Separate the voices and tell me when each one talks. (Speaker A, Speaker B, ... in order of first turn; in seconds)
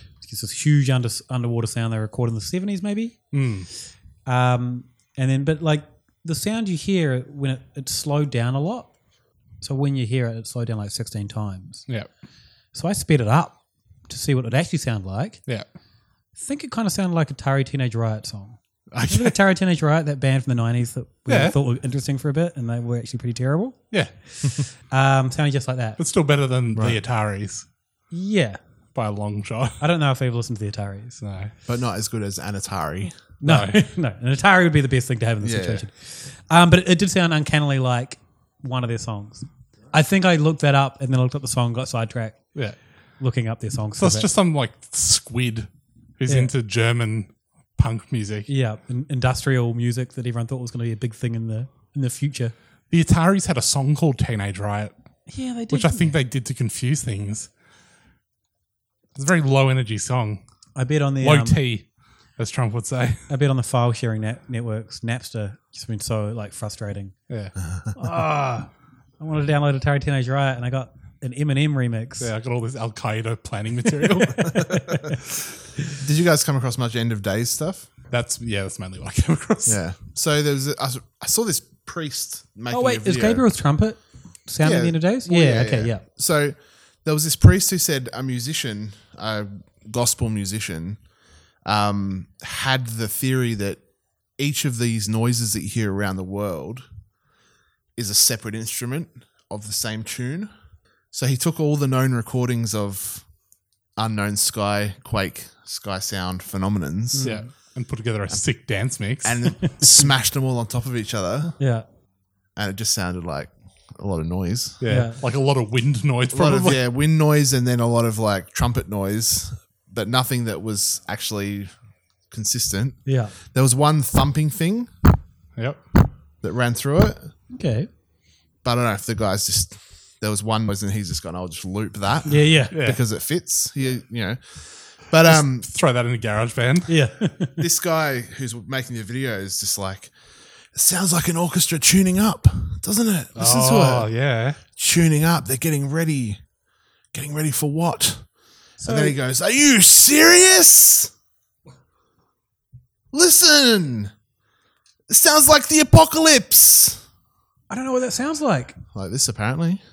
Speaker A: 0.2-3.2, 4.3-8.9, 9.6-11.9, 12.7-15.4, 16.4-23.8, 24.9-26.0, 28.1-28.6, 29.8-31.2, 33.4-42.5, 43.2-44.3, 48.5-52.5, 55.3-56.2, 60.8-61.6, 63.3-67.2, 68.0-72.3, 74.0-75.2, 82.7-86.0, 107.1-107.5, 111.6-111.8, 114.9-115.2, 123.1-123.3, 127.5-127.9, 132.3-132.7, 136.9-137.6, 148.8-149.2, 157.7-158.8
Speaker B: 3.3-3.7, 18.9-19.4, 21.3-21.6, 26.0-27.7, 28.9-29.8, 31.2-31.5, 33.4-33.8, 44.0-48.5, 52.9-54.9, 55.7-57.5, 59.1-60.4, 61.2-63.3, 67.3-67.5, 72.2-74.6, 78.1-79.8, 107.2-109.6, 114.8-116.8, 132.7-133.0, 135.2-136.9, 143.4-144.6
Speaker C: 26.7-27.0, 31.7-33.2, 35.4-35.9, 76.0-77.9, 79.7-83.4, 84.6-91.0, 91.6-93.8, 94.4-96.9, 98.0-100.5, 101.1-103.3, 104.0-107.3, 109.2-111.5, 112.6-114.8, 116.3-121.7, 122.3-124.9, 126.4-127.3, 128.6-135.7, 137.6-140.1, 140.7-144.1, 144.8-146.4, 147.1-148.3, 148.8-151.1, 153.1-154.1, 155.1-157.0, 158.9-159.8